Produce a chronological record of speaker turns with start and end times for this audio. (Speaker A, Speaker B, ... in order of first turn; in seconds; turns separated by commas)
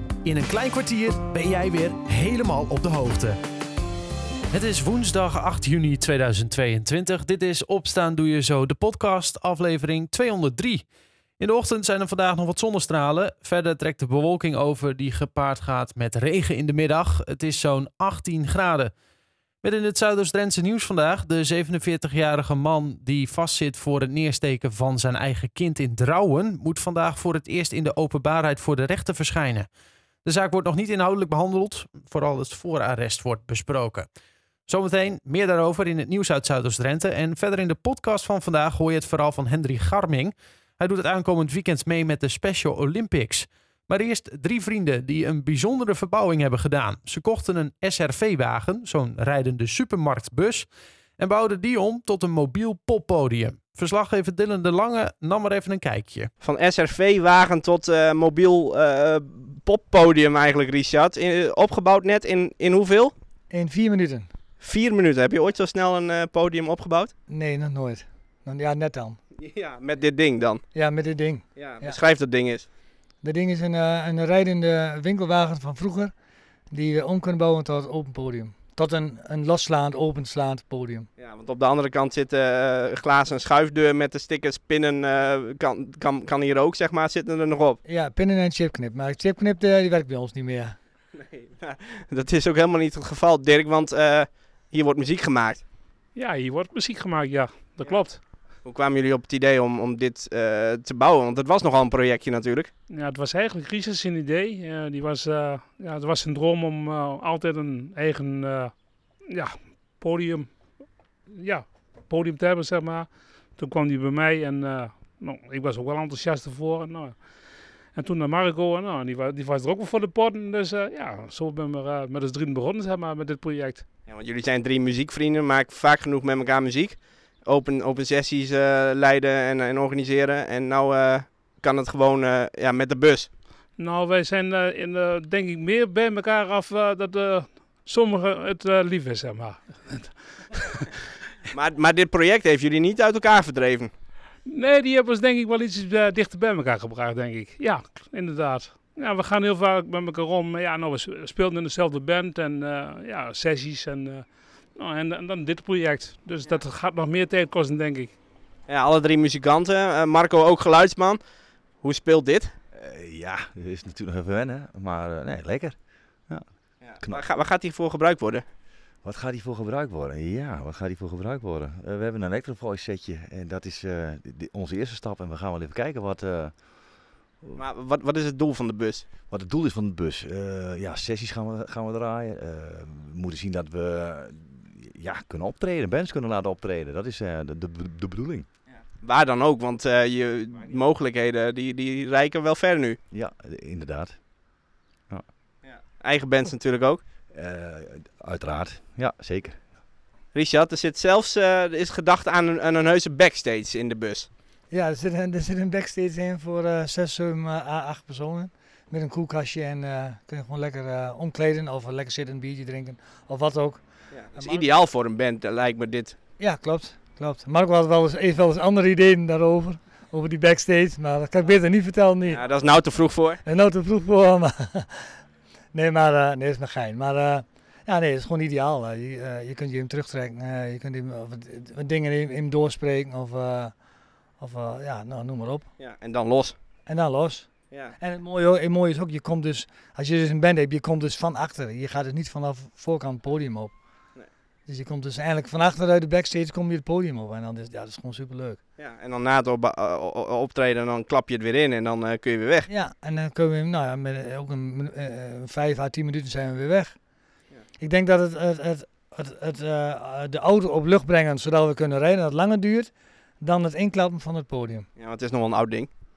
Speaker A: 0.2-3.4, Speaker A: 4.5-10.8, Speaker A: 11.4-18.9, Speaker A: 19.6-29.7, Speaker A: 30.2-34.1, Speaker A: 34.7-50.7, Speaker A: 51.2-56.3, Speaker B: 56.4-63.1, Speaker C: 63.5-64.3, Speaker B: 64.6-67.1, Speaker C: 67.3-69.2, Speaker B: 69.4-70.6, Speaker C: 70.8-72.0, Speaker B: 71.5-72.7, Speaker C: 73.2-76.1, Speaker C: 76.7-81.1, Speaker B: 81.2-87.8, Speaker C: 87.8-90.8, Speaker B: 91.2-95.6, Speaker D: 96.2-98.2, Speaker B: 98.6-102.7, Speaker D: 102.9-110.7, Speaker D: 111.3-123.8, Speaker B: 124.1-133.3, Speaker D: 133.8-140.9, Speaker B: 141.5-143.9, Speaker D: 144.5-158.2, Speaker B: 158.7-161.2, Speaker B: 161.8-162.5, Speaker E: 162.8-167.3, Speaker B: 166.8-168.4, Speaker E: 169.0-177.7, Speaker B: 177.6-179.1, Speaker E: 179.3-188.5, Speaker B: 189.0-193.0, Speaker E: 193.1-194.2, Speaker B: 195.6-197.0, Speaker E: 197.3-199.8, Speaker B: 200.3-204.3, Speaker C: 204.7-213.8, Speaker B: 214.1-216.2, Speaker C: 214.4-214.7, Speaker C: 216.4-222.5, Speaker B: 222.3-223.4, Speaker C: 223.4-225.1, Speaker C: 225.7-233.7, Speaker C: 234.4-235.7, Speaker B: 235.8-236.6, Speaker C: 236.9-237.5, Speaker C: 238.0-243.7, Speaker C: 244.7-248.6, Speaker B: 248.8-252.7, Speaker C: 252.7-257.0, Speaker C: 257.8-262.9, Speaker C: 263.4-264.9, Speaker B: 265.0-265.9